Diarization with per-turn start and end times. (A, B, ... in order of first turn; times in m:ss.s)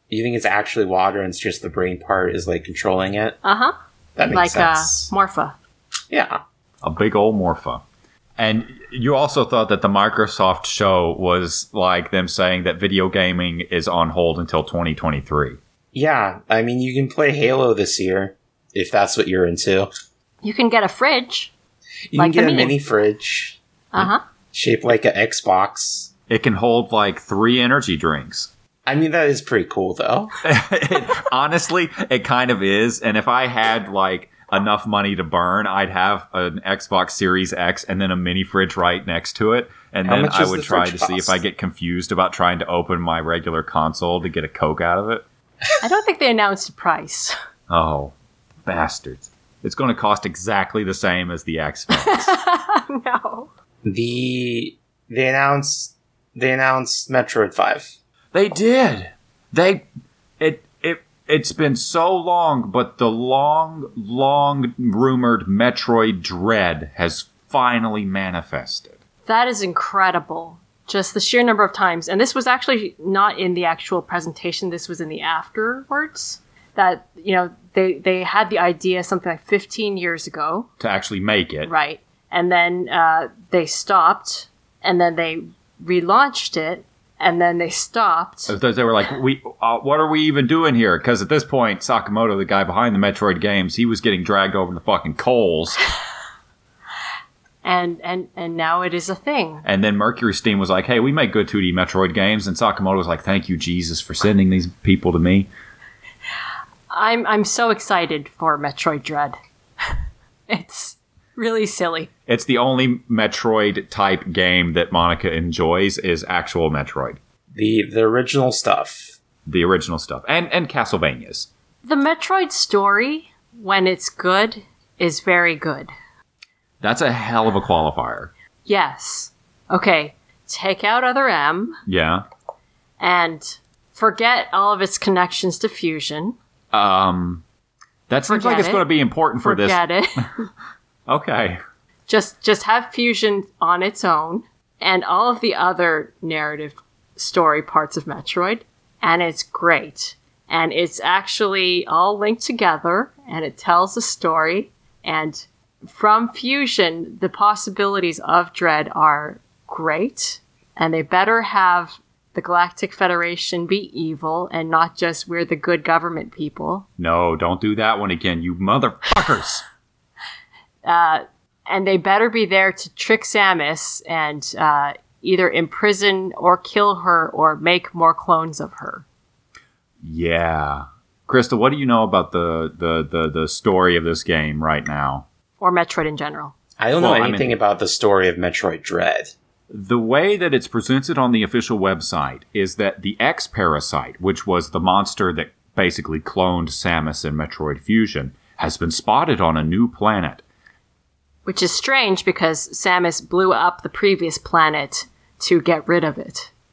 0:00.1-0:03.4 A
0:03.4-0:03.7 B
0:04.2-0:05.1 A
0:04.3-0:05.6 B
0:06.1-0:06.4 A
0:06.8-0:07.8 C
0:08.4-0:15.6 C
0:15.9-0:19.9 A
0:20.4-0:21.5 B
0:22.1-0:23.6 A
0:22.2-0:22.7 B
0:23.9-0:24.2 B
0:24.5-0:26.1 A
0:26.3-0:28.5 C
0:28.9-0:30.3 A
0:30.4-0:45.2 C
0:40.1-0:41.4 A
0:45.8-0:47.4 B
0:47.7-0:48.1 C
0:48.6-0:52.4 C
0:52.0-0:53.5 B
0:53.8-0:58.0 A
0:58.3-0:59.8 C
1:00.4-1:09.0 C
1:09.3-1:20.7 B
1:20.8-1:21.7 C
1:21.7-1:28.6 B
1:28.5-1:35.8 C
1:37.6-1:39.6 B
1:39.6-1:45.5 C
1:46.9-1:50.0 B
1:50.5-1:52.1 B
1:52.3-1:57.2 C
1:57.5-1:59.2 A
1:59.5-2:01.5 C
2:01.8-2:05.9 B
2:06.8-2:08.3 C
2:08.7-2:11.8 B
2:11.9-2:12.2 C
2:13.0-2:16.4 B
2:16.7-2:17.4 C
2:18.1-2:20.2 C
2:18.3-2:18.8 B
2:19.4-2:20.5 B
2:21.1-2:21.6 C
2:22.1-2:46.9 B
2:47.0-2:49.6 C
2:50.8-2:59.0 B
3:00.0-3:05.3 C
3:05.6-3:06.6 B
3:06.8-3:09.3 A
3:07.0-3:07.6 C
3:09.7-3:20.4 C
3:21.5-3:26.5 B